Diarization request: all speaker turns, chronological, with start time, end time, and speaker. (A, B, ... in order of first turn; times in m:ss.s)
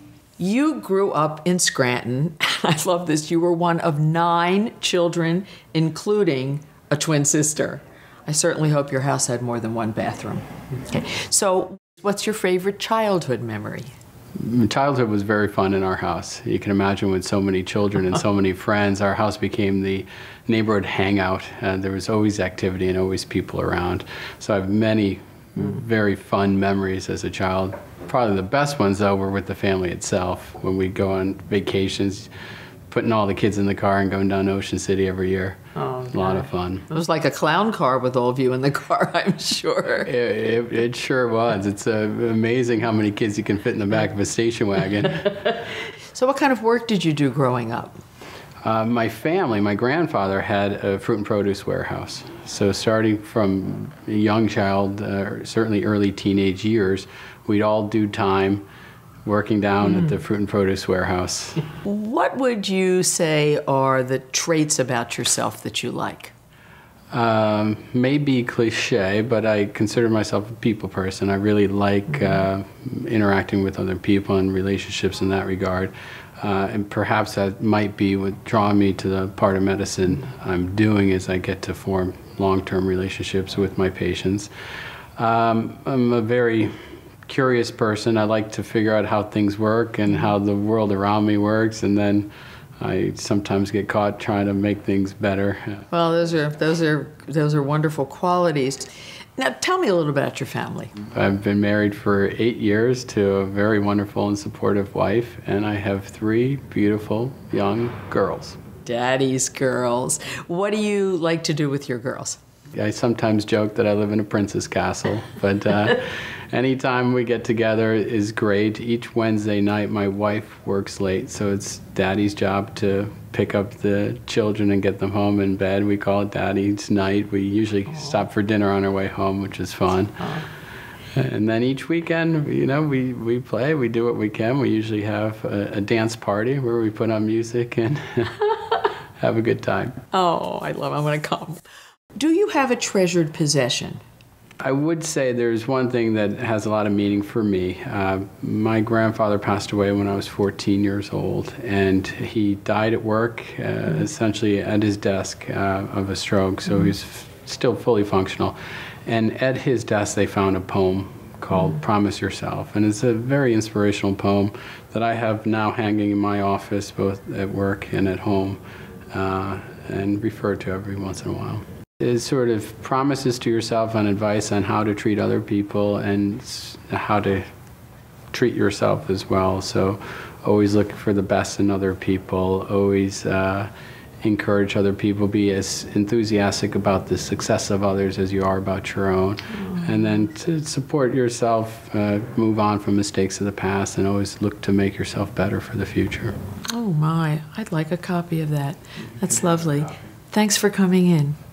0:00.4-0:13.9 A
0:14.4-0:32.3 B
0:32.9-0:36.9 B
0:36.9-0:40.1 A
0:40.0-0:45.5 B
0:46.1-0:48.0 A
0:48.6-0:58.6 B
0:59.2-1:01.6 B
1:01.8-1:06.3 A
1:07.1-1:24.5 B
1:25.2-1:26.7 B
1:27.2-1:35.8 B
1:35.9-1:40.9 A
1:41.1-1:48.6 B
1:48.8-1:52.4 A
1:52.7-2:10.4 B
2:11.1-2:18.5 B
2:19.2-2:20.0 B
2:20.1-2:21.6 A
2:22.2-2:24.0 A
2:24.6-2:38.5 B
2:39.0-2:48.6 B
2:49.1-2:57.4 B
2:58.3-3:03.7 B
3:04.2-3:16.3 B
3:16.7-3:21.4 A